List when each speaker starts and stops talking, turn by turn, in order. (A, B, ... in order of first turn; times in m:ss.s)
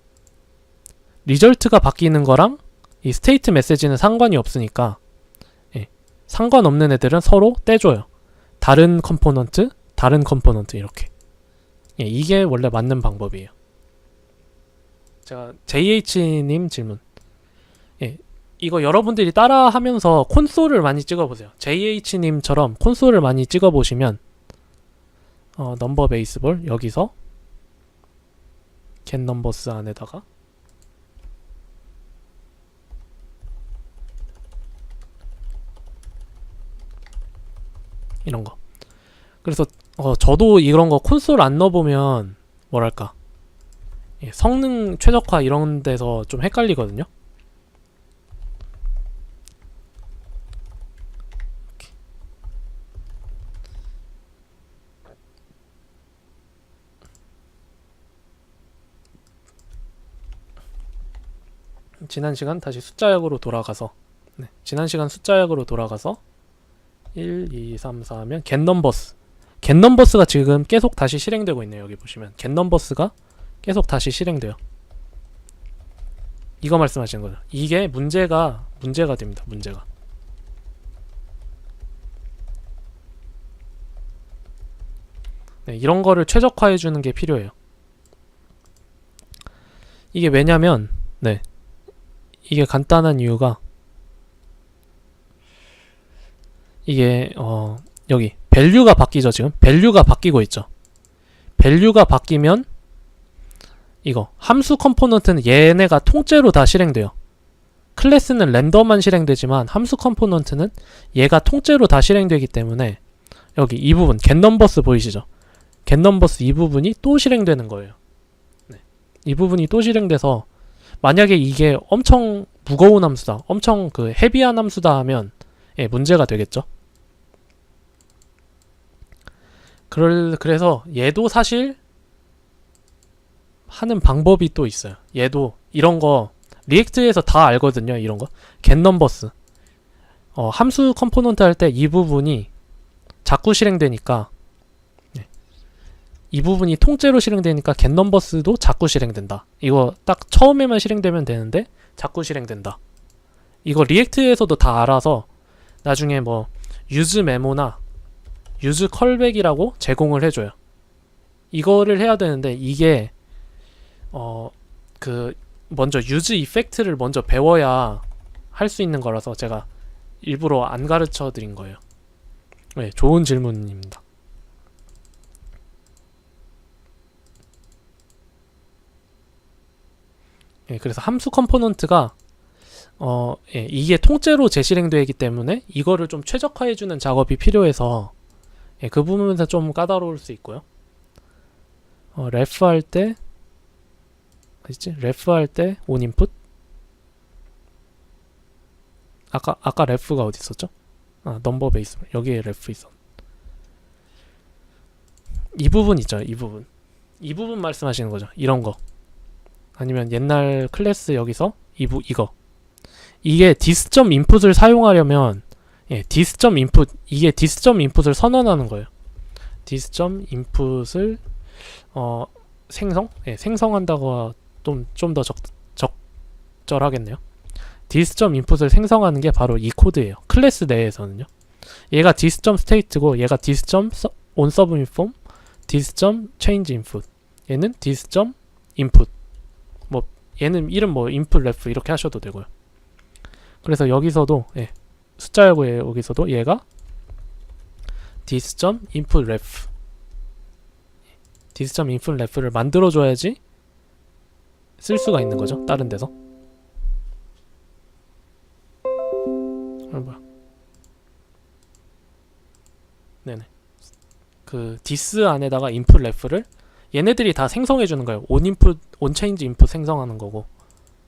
0:01.2-0:05.0 A
0:05.7-0:08.1 A
0:08.6-0:11.1 A
0:12.0-0:13.5 A
0:15.2-0:17.0 A
0:18.0-0:24.2 A
0:25.6-0:27.1 A
0:29.1-0:30.2 A
0:38.2-0:38.6 A
0:39.4-0:43.1 A
0:44.2-0:47.1 A
1:02.0-1:06.2 A
1:07.2-1:14.6 A
1:16.6-1:19.8 A
1:25.7-1:27.5 A
1:30.1-1:31.4 A
1:32.5-1:33.6 A
1:36.9-1:40.7 A
1:41.6-1:42.7 A
1:44.0-1:47.1 A
1:48.0-1:53.0 A
1:53.6-1:55.3 A
1:55.9-1:58.0 A
1:58.7-2:00.5 A
2:01.0-2:06.7 A
2:09.9-2:11.8 A
2:13.7-2:19.3 A
2:20.4-2:22.5 A
2:23.2-2:24.3 A
2:26.3-2:32.8 A
2:33.6-2:35.3 A
2:35.8-2:37.8 A
2:38.6-2:40.6 A
2:41.5-2:43.1 A
2:44.1-2:49.7 A
2:50.2-2:51.8 A
2:52.8-2:54.0 A
3:00.7-3:02.1 A
3:03.0-3:08.1 A
3:08.8-3:10.6 A
3:12.2-3:13.2 A
3:14.6-3:16.3 A
3:19.3-3:20.7 A
3:21.2-3:22.9 A
3:25.5-3:26.7 A
3:27.2-3:28.8 A
3:29.8-3:32.3 A
3:33.2-3:38.9 A
3:39.7-3:41.2 A
3:41.9-3:46.0 A
3:46.7-3:47.2 A
3:47.9-3:51.3 A
3:51.9-3:55.2 A
3:55.7-3:59.1 A
3:59.9-4:02.5 A
4:03.6-4:06.6 A
4:08.2-4:09.7 A
4:11.5-4:13.4 A
4:14.8-4:16.1 A
4:19.9-4:20.2 A
4:24.5-4:30.5 A